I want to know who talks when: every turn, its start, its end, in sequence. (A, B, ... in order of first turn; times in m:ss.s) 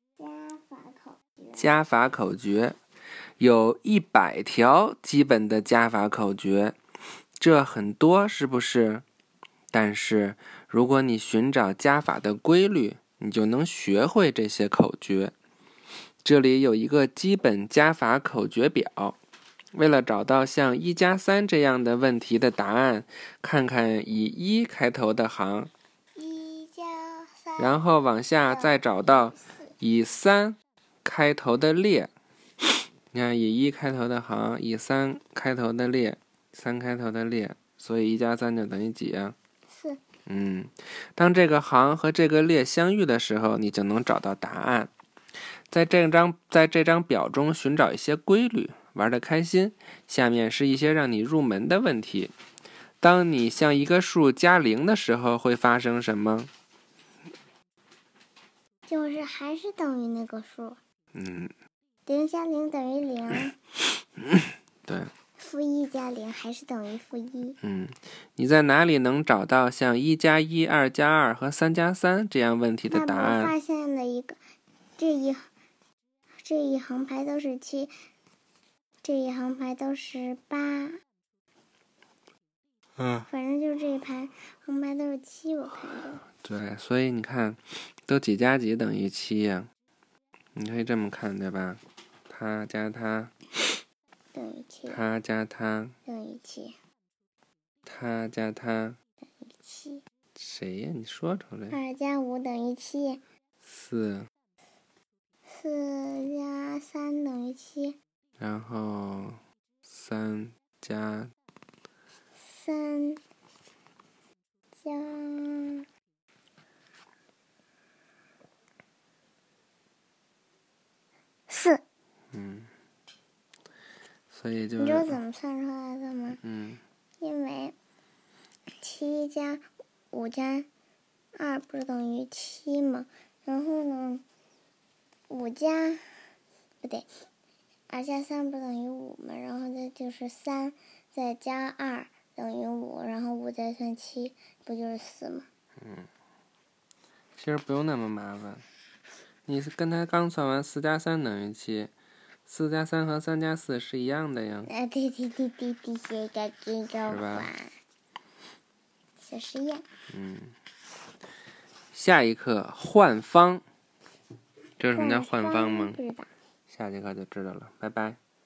0:00.2-0:01.8 A
0:01.6-0:02.8 B
0:03.4-0:06.8 B
0:07.4-0:09.0 B
0:09.7-0:15.3 B
0:16.2-0:19.2 B
0:19.7-0:25.7 B
0:26.2-0:27.8 A
0:27.6-0:32.1 B
0:28.4-0:29.7 A
0:33.1-0:39.4 B
0:39.7-0:40.0 A
0:40.2-0:44.9 B
0:45.7-0:52.3 B
0:53.0-0:56.5 B
0:58.9-1:00.8 A
1:01.1-1:01.5 B
1:02.0-1:03.6 A
1:04.8-1:05.1 B
1:05.4-1:07.6 A
1:07.6-1:13.5 B
1:12.9-1:14.4 A
1:15.0-1:15.5 A
1:16.4-1:17.9 A
1:19.0-1:21.0 A
1:23.0-1:23.2 B
1:23.3-1:26.2 A
1:26.4-1:29.7 B
1:30.5-1:33.3 B
1:34.3-1:35.0 A
1:34.9-1:35.9 B
1:36.0-1:36.8 A
1:37.8-1:39.0 B
1:39.4-1:40.0 A
1:40.3-1:41.8 B
1:41.7-1:43.2 A
1:43.6-1:44.3 B
1:45.5-1:48.0 A
1:48.4-1:51.3 B
1:52.4-1:53.2 A
1:54.8-1:55.8 A
2:01.5-2:01.8 A
2:02.3-2:02.7 B
2:04.3-2:05.2 B
2:04.8-2:06.4 A
2:06.4-2:06.8 B
2:07.2-2:07.8 A
2:08.8-2:10.7 A
2:11.3-2:14.2 A
2:15.3-2:16.0 A
2:16.8-2:17.1 A
2:17.9-2:25.5 A
2:25.8-2:26.1 B
2:27.4-2:28.6 B
2:29.4-2:31.9 B
2:32.4-2:34.7 B
2:34.7-2:37.7 A
2:37.0-2:37.5 B
2:39.2-2:39.8 A
2:40.1-2:40.5 B
2:41.9-2:43.6 B
2:44.8-2:46.0 B
2:44.9-2:46.3 A
2:46.7-2:48.2 B